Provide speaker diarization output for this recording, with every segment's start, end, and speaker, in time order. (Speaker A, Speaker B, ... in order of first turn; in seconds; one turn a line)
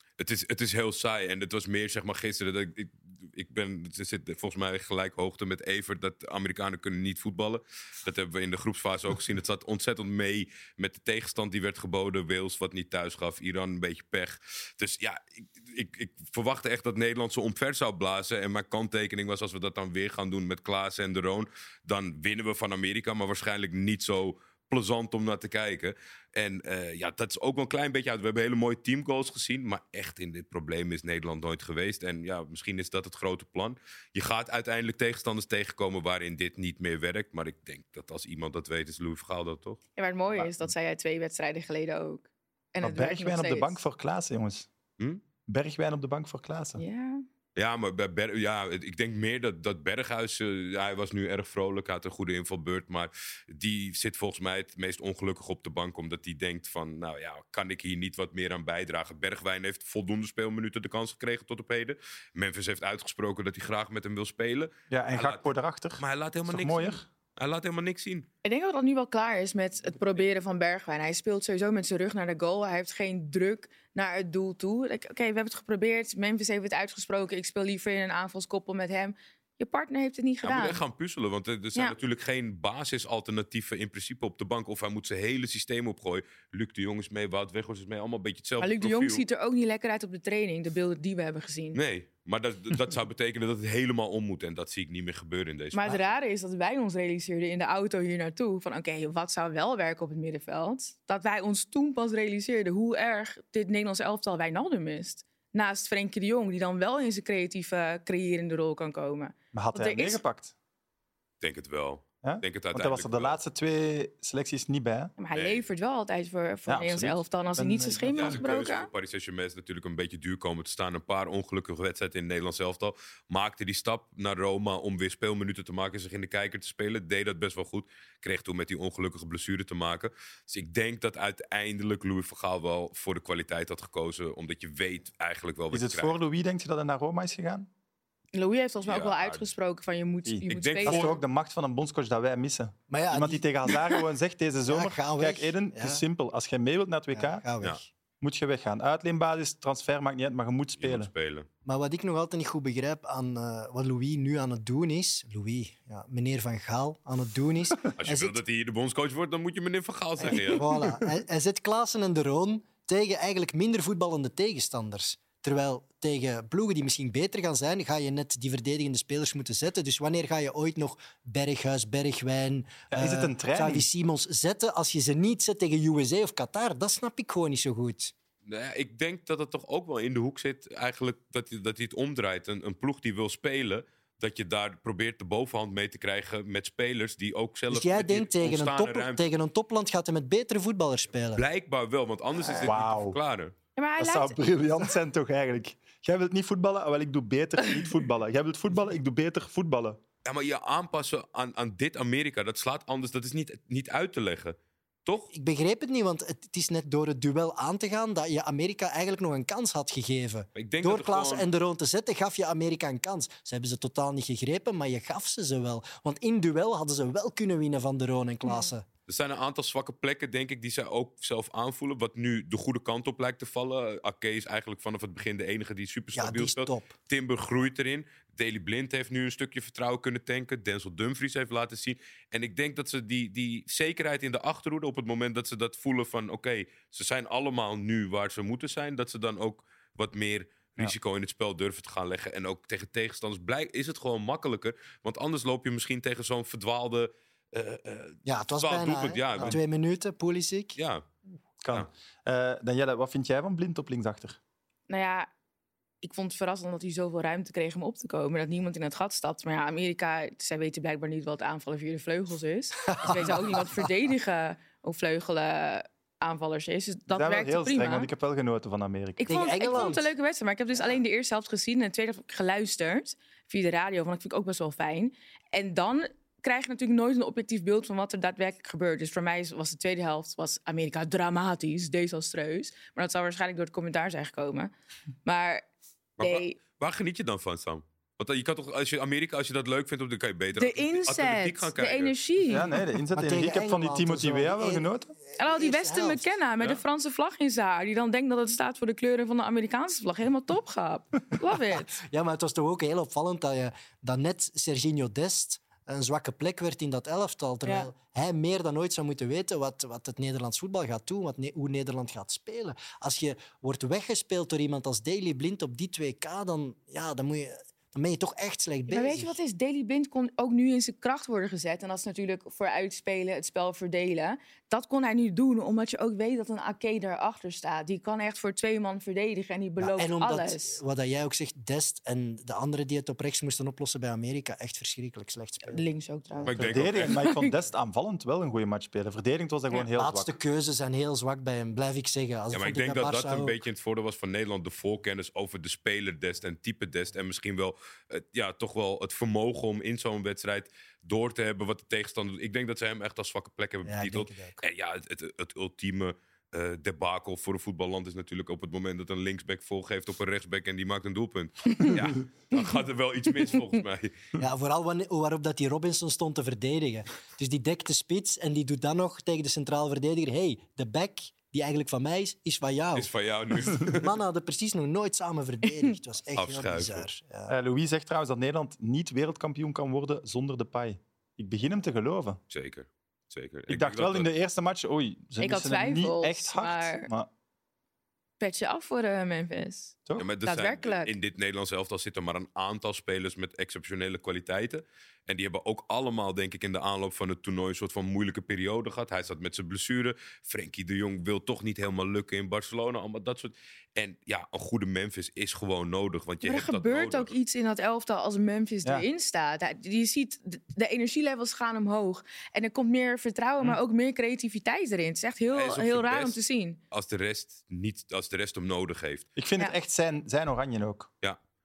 Speaker A: 0.2-39.8
Speaker B: 40.0-43.8
Speaker C: 40.3-40.6
Speaker C: 42.8-44.7
Speaker C: 45.5-46.8
Speaker B: 46.8-47.2
Speaker A: 47.5-68.3
Speaker C: 64.9-67.0
Speaker B: 68.4-80.8
Speaker A: 80.4-89.2
Speaker B: 88.6-91.8
Speaker A: 91.7-96.0
Speaker B: 95.7-110.2
Speaker C: 109.5-110.5
Speaker A: 111.4-113.4
Speaker C: 112.2-115.1
Speaker B: 115.2-118.9
Speaker A: 115.3-115.7
Speaker C: 116.7-118.5
Speaker A: 118.1-136.2
Speaker C: 135.7-137.7
Speaker B: 138.3-141.2
Speaker A: 138.8-139.5
Speaker C: 140.3-147.4
Speaker A: 140.5-141.2
Speaker D: 142.9-143.4
Speaker D: 144.7-146.0
Speaker D: 147.1-147.9
Speaker C: 148.2-151.1
Speaker A: 150.8-151.5
Speaker D: 151.6-158.4
Speaker A: 158.0-160.8
Speaker D: 160.2-178.1
Speaker C: 172.9-173.9
Speaker A: 178.4-189.3
Speaker D: 187.7-191.4
Speaker A: 191.3-193.5
Speaker C: 192.4-193.2
Speaker B: 193.8-194.4
Speaker C: 194.0-200.0
Speaker A: 200.2-205.3
Speaker D: 205.3-218.8
Speaker A: 210.6-211.5
Speaker A: 219.1-249.6
Speaker D: 226.1-226.9
Speaker D: 248.2-250.8
Speaker A: 250.8-251.0
Speaker C: 251.6-254.4
Speaker B: 254.9-255.3
Speaker B: 256.0-268.1
Speaker D: 262.9-263.4
Speaker C: 267.1-269.3
Speaker B: 269.2-284.7
Speaker D: 269.3-270.1
Speaker B: 285.2-285.6
Speaker B: 286.2-286.6
Speaker A: 286.2-292.1
Speaker B: 290.6-292.7
Speaker C: 292.5-295.1
Speaker D: 293.1-296.2
Speaker B: 295.4-302.0
Speaker D: 301.7-319.4
Speaker B: 307.6-307.9
Speaker B: 318.9-330.8
Speaker D: 329.8-335.9
Speaker B: 335.6-337.5
Speaker A: 336.4-337.2
Speaker C: 336.6-340.3
Speaker D: 339.9-343.6
Speaker A: 342.5-364.1
Speaker D: 353.8-354.6
Speaker D: 364.4-373.1
Speaker A: 372.9-374.1
Speaker D: 373.7-377.5
Speaker B: 375.7-375.9
Speaker A: 376.3-377.1
Speaker C: 377.5-382.4
Speaker A: 382.5-384.3
Speaker C: 383.7-387.3
Speaker B: 385.4-387.1
Speaker B: 388.4-391.1
Speaker A: 390.2-407.3
Speaker B: 406.4-416.8
Speaker A: 415.5-416.4
Speaker A: 416.9-419.2
Speaker C: 419.4-421.1